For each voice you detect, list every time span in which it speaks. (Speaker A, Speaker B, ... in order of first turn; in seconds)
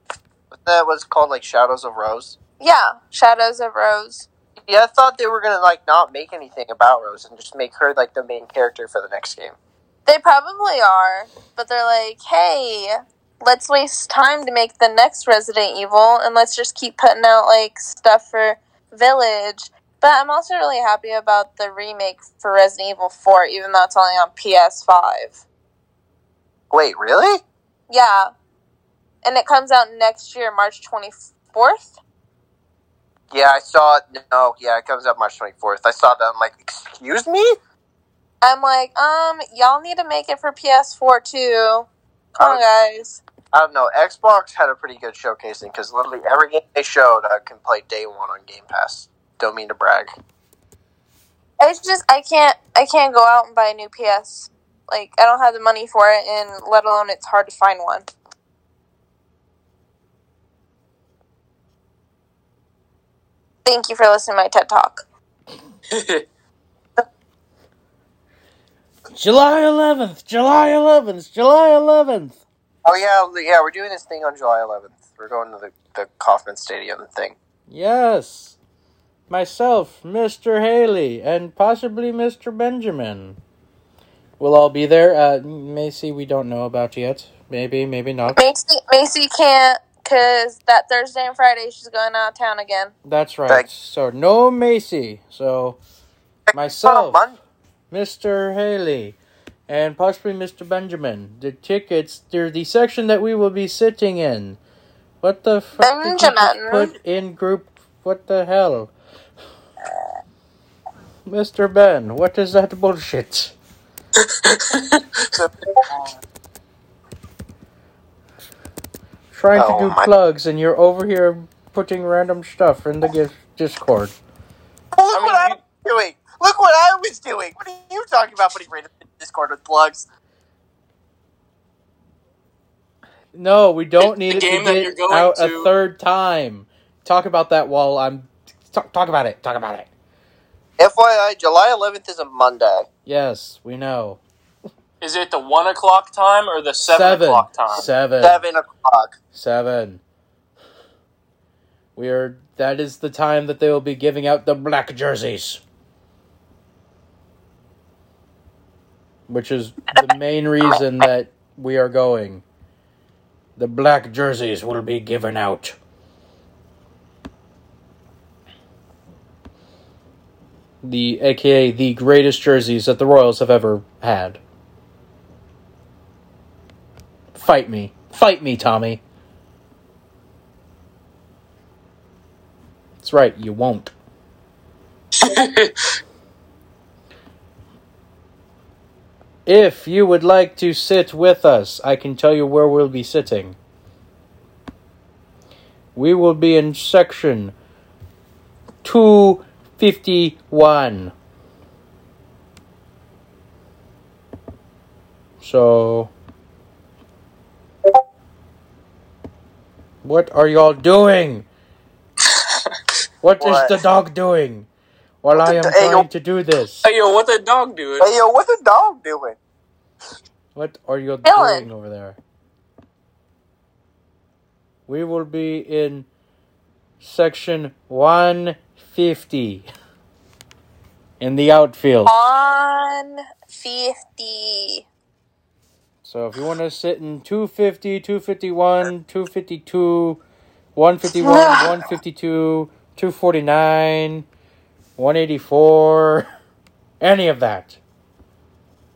Speaker A: 0.5-2.4, 4.7-9.6, 26.7-27.4, 33.3-37.5, 43.5-50.1, 72.8-77.3, 96.5-97.4, 119.5-120.1, 124.9-130.1, 140.8-142.9, 148.2-149.2, 213.4-213.8, 215.3-216.1, 218.0-219.4
Speaker B: 2.6-4.3, 10.1-25.4, 27.9-28.3, 29.2-32.0, 38.4-43.2, 51.6-58.1, 63.6-65.0, 88.3-92.9, 105.8-106.9, 221.2-221.7, 232.0-234.8, 241.2-241.7
Speaker C: 65.9-66.2, 114.2-115.2, 125.1-125.6, 134.0-135.7, 145.0-147.9, 185.2-185.8, 212.2-212.7, 216.8-218.1
Speaker D: 69.1-72.4, 77.7-78.5, 79.3-83.4, 84.4-88.4, 93.0-95.8, 96.5-97.2, 97.9-99.2, 99.7-104.6, 105.2-108.9, 111.3-113.5, 119.3-124.1, 133.3-139.9, 143.1-144.2, 146.8-148.4, 149.3-150.0, 151.9-155.6, 159.3-162.4, 163.6-165.8, 170.8-174.4, 177.3-179.0, 183.0-183.9, 189.4-193.6, 195.9-197.5, 198.8-201.1, 205.4-206.1, 210.0-211.4, 213.2-214.7, 215.2-216.9, 220.5-222.2, 224.9-226.1, 227.0-229.7, 231.2-232.3, 236.0-240.2, 240.7-244.2, 245.0-246.3, 247.0-247.8